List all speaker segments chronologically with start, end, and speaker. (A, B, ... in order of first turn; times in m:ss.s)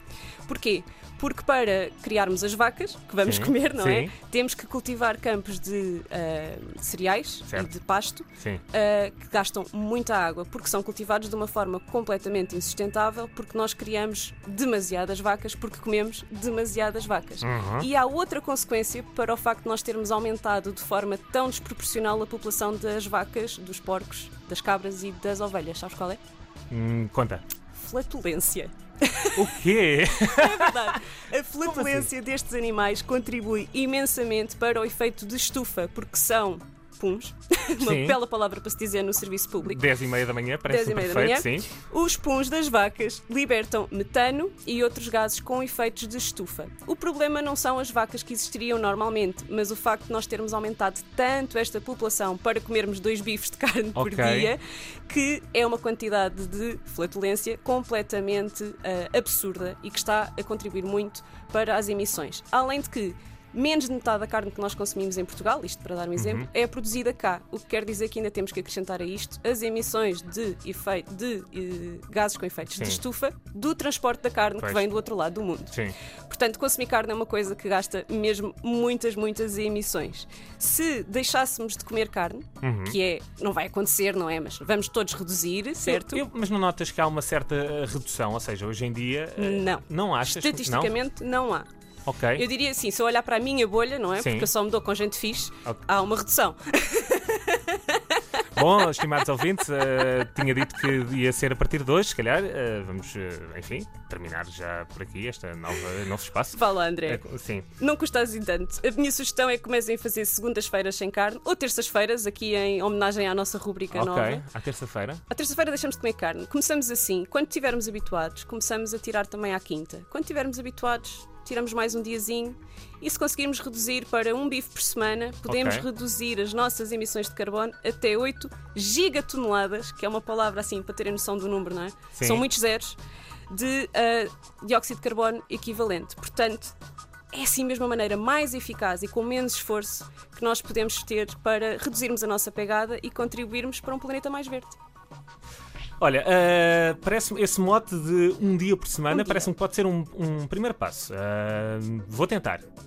0:00.4-0:26.2 A
0:03.2-0:04.1 B
0:08.4-0:08.6 B
0:17.4-0:17.9 B
0:26.7-0:27.4 B
0:27.7-0:29.6 A
0:29.4-0:31.0 B
0:30.1-0:39.8 A
0:31.7-0:32.1 B
0:37.8-0:38.2 B
0:39.6-0:41.7 B
0:40.6-1:15.7 A
0:54.0-0:54.5 B
1:06.2-1:06.5 B
1:12.7-1:13.0 B
1:14.6-1:14.8 B
1:16.3-1:26.2 A
1:22.6-1:23.0 B
1:25.8-1:30.9 B
1:29.4-1:31.7 A
1:32.0-1:32.4 B
1:32.3-1:38.2 A
1:34.2-1:34.5 B
1:38.5-1:47.7 B
1:46.5-1:47.2 A
1:47.8-1:54.4 A
1:53.9-1:55.2 B
1:55.3-2:13.0 A
2:05.5-2:05.8 B
2:12.1-2:12.4 B
2:13.5-2:16.7 A
2:17.3-2:24.8 A
2:26.0-2:32.6 B
2:29.1-2:29.5 A